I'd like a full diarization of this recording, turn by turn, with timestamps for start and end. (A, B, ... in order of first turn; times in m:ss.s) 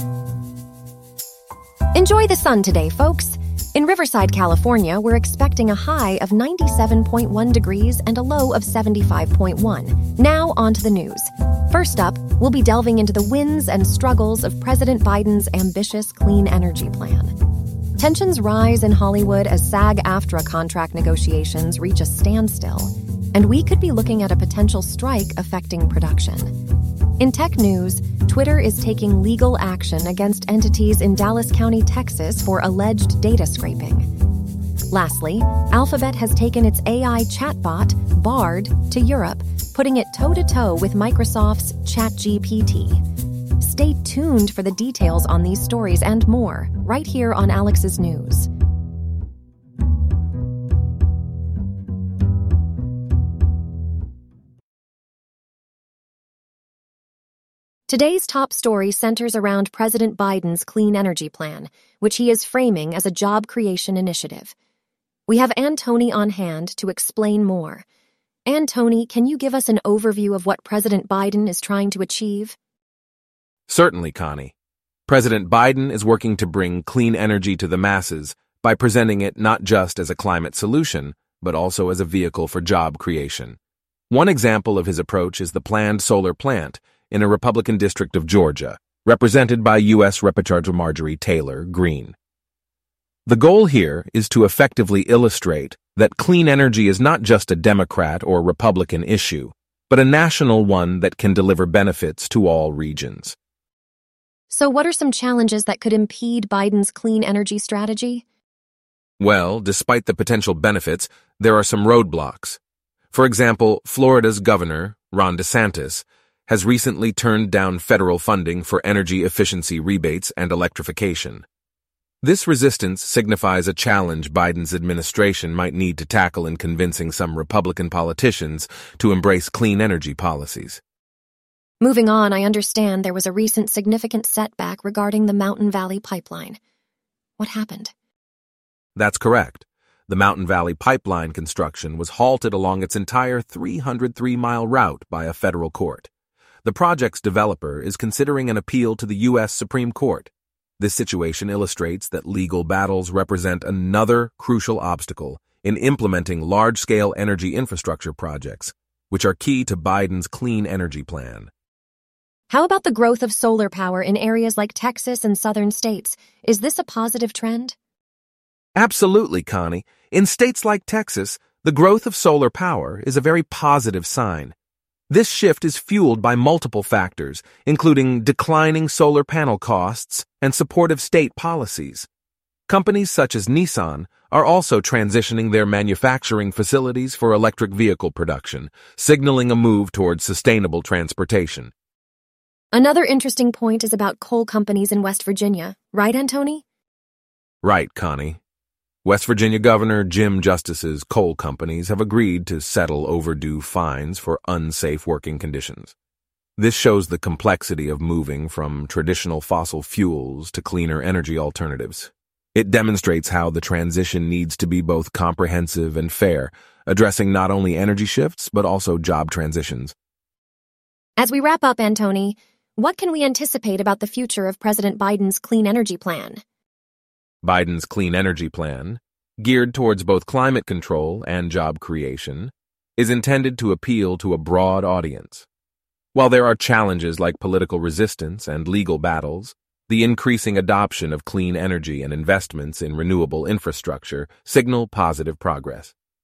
0:01.9-0:17.3 A
0:18.0-0:26.6 A
0:27.2-0:34.1 A
0:34.9-0:43.0 A
0:43.6-0:48.5 A
0:57.9-1:04.5 A
1:05.3-1:07.8 A
1:08.5-1:12.6 A
1:13.7-1:14.5 B
1:15.1-1:23.6 B
1:24.1-1:32.1 B
1:33.2-1:43.4 B
1:44.5-1:48.2 A
1:49.2-1:52.6 B
1:53.1-2:01.4 B
2:02.2-2:10.8 B
2:11.8-2:16.6 A
2:17.4-2:17.9 A
2:19.0-2:26.1 B
2:26.6-2:41.5 B
2:42.5-2:47.8 A
2:48.8-2:54.5 B
2:55.1-3:02.1 B
3:02.7-3:11.7 B
3:12.7-3:16.6 A
3:17.6-3:18.4 B
3:19.0-3:25.9 B
3:26.6-3:39.9 B
3:41.2-3:46.4 A
3:47.4-3:55.4 B
3:56.1-4:05.9 B